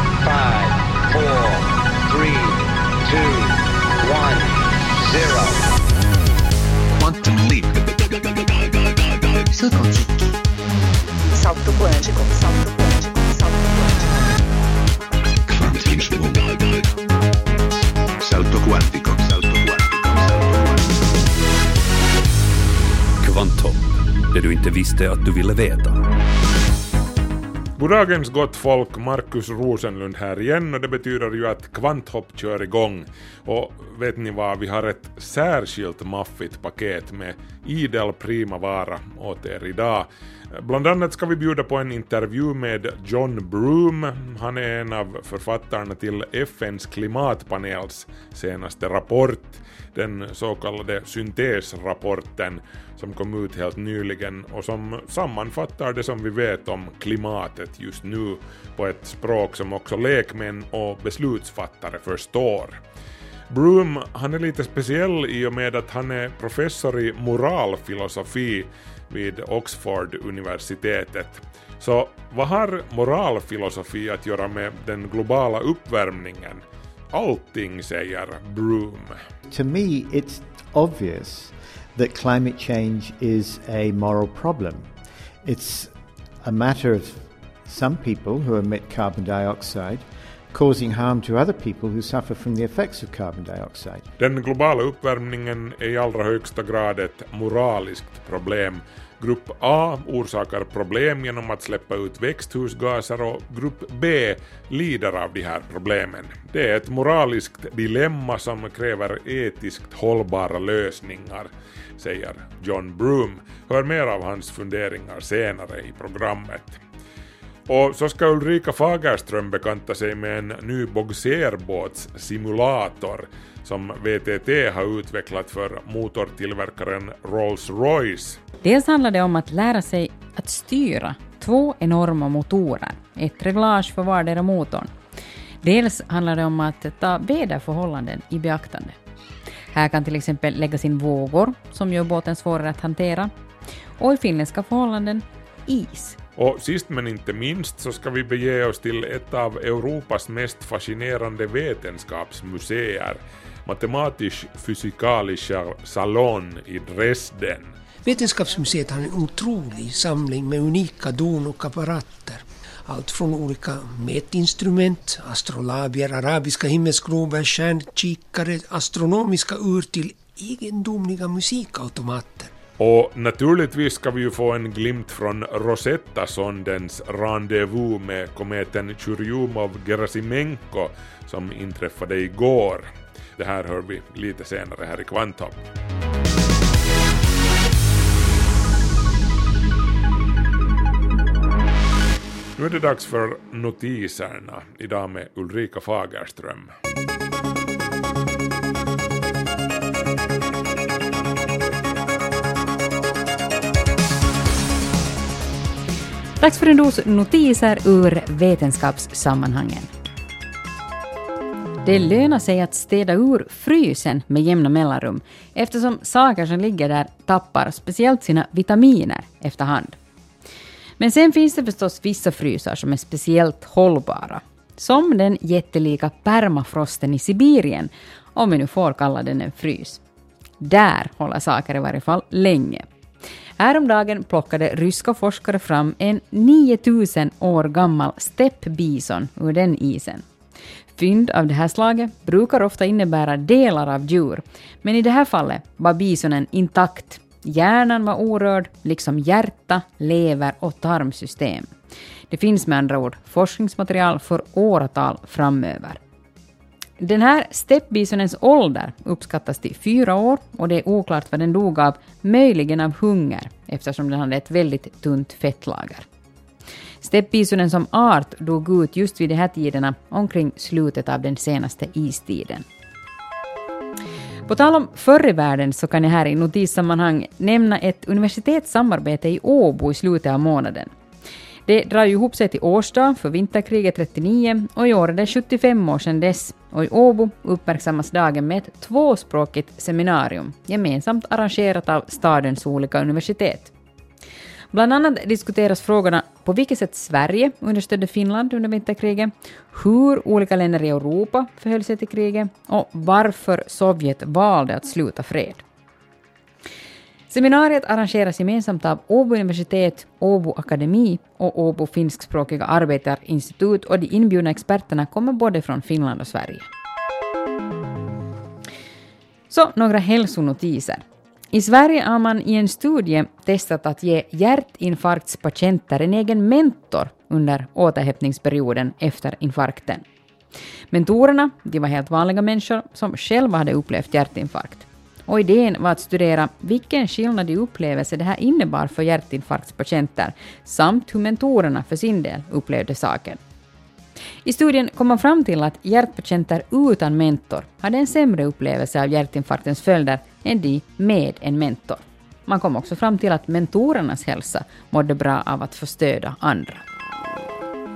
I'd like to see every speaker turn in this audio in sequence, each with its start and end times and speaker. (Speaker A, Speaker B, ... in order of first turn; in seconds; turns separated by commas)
Speaker A: 0.2-5.7, Speaker B: 7.0-9.6, Speaker C: 11.3-14.1, Speaker B: 15.5-16.9, Speaker B: 18.2-20.8, Speaker D: 23.2-26.0, Speaker E: 27.8-62.8, Speaker E: 63.5-79.2, Speaker F: 79.5-84.9, Speaker F: 85.4-85.9, Speaker F: 86.4-94.1, Speaker E: 94.2-116.8, Speaker E: 117.7-128.4, Speaker G: 128.6-134.9, Speaker G: 135.6-138.9, Speaker G: 139.7-143.3, Speaker G: 144.0-146.2, Speaker E: 146.4-157.7, Speaker H: 158.0-172.5, Speaker E: 172.8-185.5, Speaker E: 192.6-196.7, Speaker G: 206.4-209.9, Speaker G: 211.8-220.0, Speaker G: 221.0-230.0, Speaker G: 230.6-232.8, Speaker G: 233.6-240.2, Speaker G: 241.0-251.7, Speaker G: 252.3-256.0, Speaker G: 257.0-266.1, Speaker G: 267.0-272.6, Speaker G: 274.5-280.9, Speaker G: 281.7-293.7, Speaker G: 294.7-305.6, Speaker G: 307.3-316.7, Speaker G: 319.5-330.0, Speaker G: 330.9-343.4, Speaker G: 344.4-356.8